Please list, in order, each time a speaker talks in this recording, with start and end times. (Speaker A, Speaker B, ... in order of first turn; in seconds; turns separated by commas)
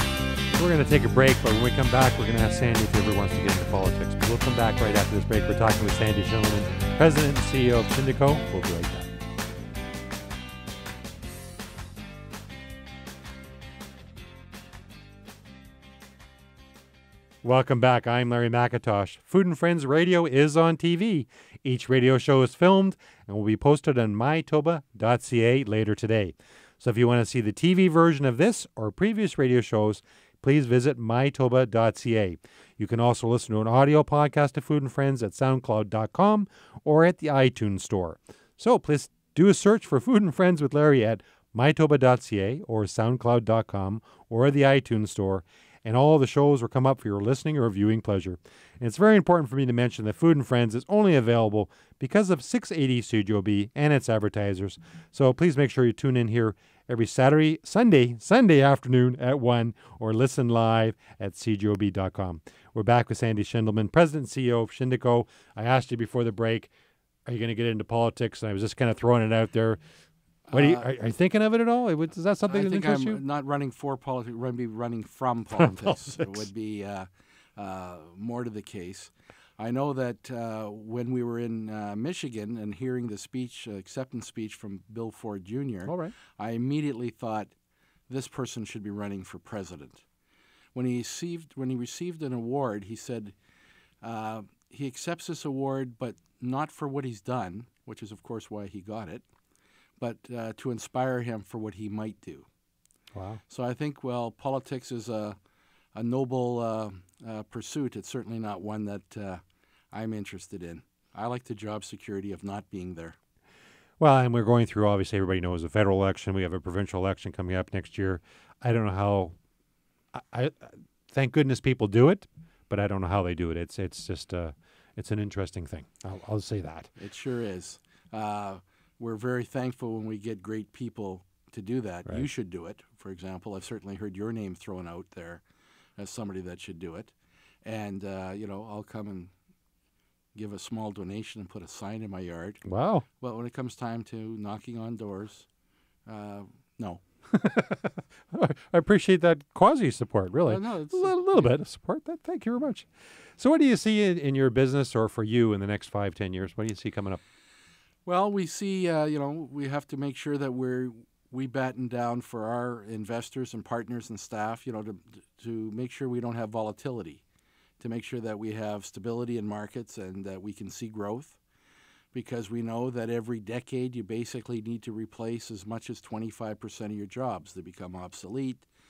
Speaker A: 0.5-9.1, Speaker A: 17.4-66.7, Speaker A: 67.2-69.8, Speaker B: 70.5-70.9, Speaker A: 70.5-73.2, Speaker B: 72.5-87.5, Speaker A: 75.6-76.4, Speaker A: 85.8-86.1, Speaker B: 88.1-90.0, Speaker B: 90.7-93.3, Speaker B: 94.0-99.2, Speaker B: 100.0-102.5, Speaker A: 103.1-103.4, Speaker B: 103.5-105.4, Speaker B: 105.9-113.2, Speaker A: 114.0-119.3, Speaker A: 120.1-126.9, Speaker B: 127.0-135.4, Speaker B: 136.0-137.1, Speaker B: 137.6-139.3, Speaker B: 140.3-142.6, Speaker A: 142.6-143.0, Speaker B: 143.2-145.5, Speaker B: 146.1-147.0, Speaker A: 147.3-157.2, Speaker B: 150.5-151.5, Speaker B: 158.1-167.2, Speaker B: 167.8-171.4, Speaker B: 172.1-178.7